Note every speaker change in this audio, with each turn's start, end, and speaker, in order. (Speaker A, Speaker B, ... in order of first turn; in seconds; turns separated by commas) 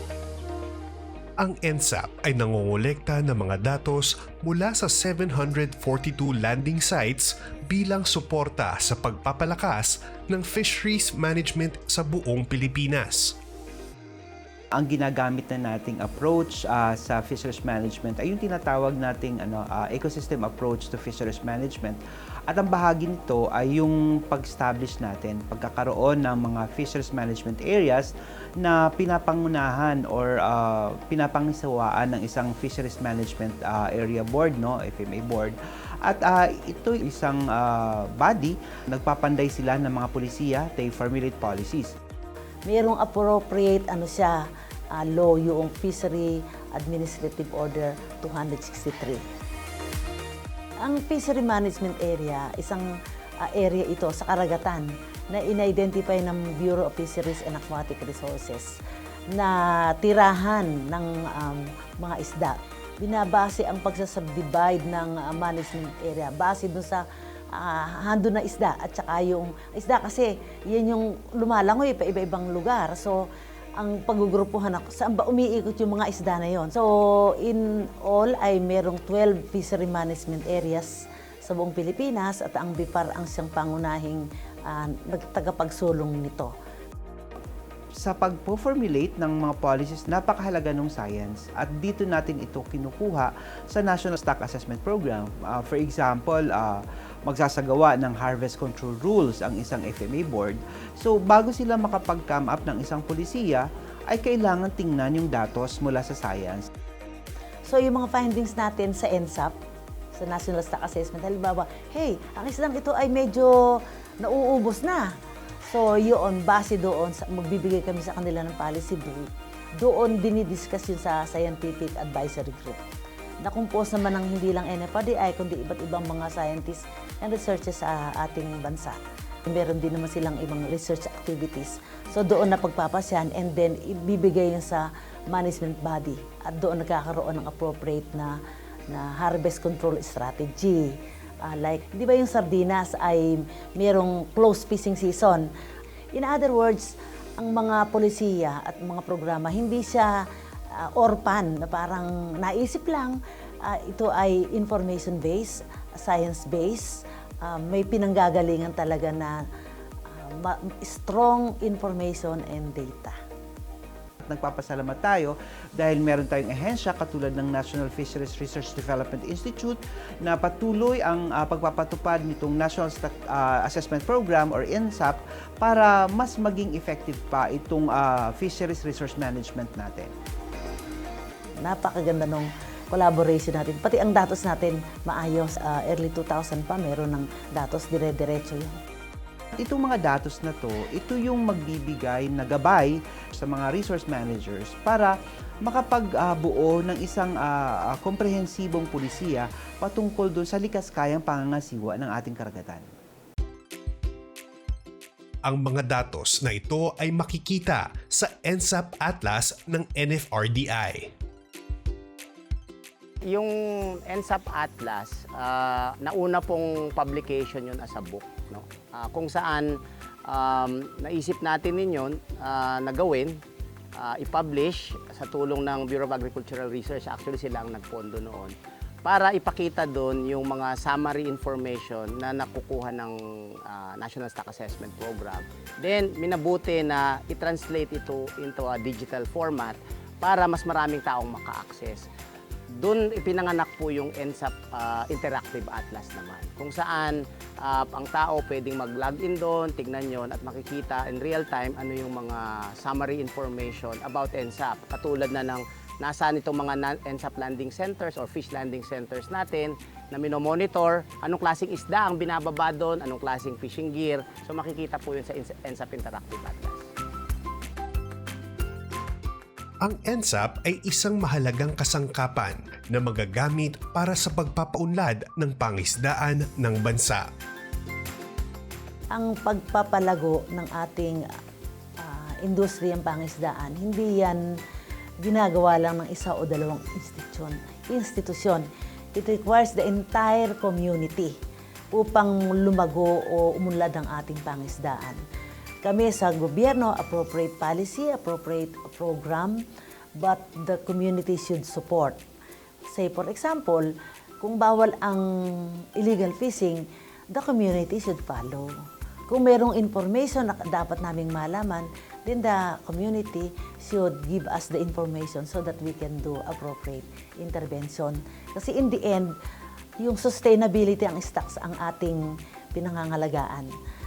Speaker A: 1.4-13.4, Speaker B: 14.8-41.9, Speaker C: 42.6-49.2, Speaker C: 50.8-58.8, Speaker C: 59.3-73.3, Speaker C: 73.8-80.9, Speaker C: 81.4-86.5, Speaker B: 88.0-106.7, Speaker C: 107.7-109.5, Speaker C: 110.1-115.1, Speaker C: 115.6-122.8, Speaker C: 123.4-145.5, Speaker C: 146.1-159.4, Speaker C: 160.1-163.2, Speaker B: 164.2-180.1, Speaker C: 181.6-188.7, Speaker B: 189.6-202.9, Speaker A: 205.4-211.1, Speaker D: 213.2-223.4, Speaker D: 223.9-242.1, Speaker D: 242.7-266.9, Speaker A: 269.8-277.2, Speaker C: 279.1-281.2, Speaker C: 282.0-284.4, Speaker C: 285.2-291.3, Speaker C: 291.9-295.2, Speaker C: 295.8-299.6, Speaker C: 300.2-302.2, Speaker C: 302.9-308.7, Speaker C: 309.3-319.3, Speaker C: 320.0-323.7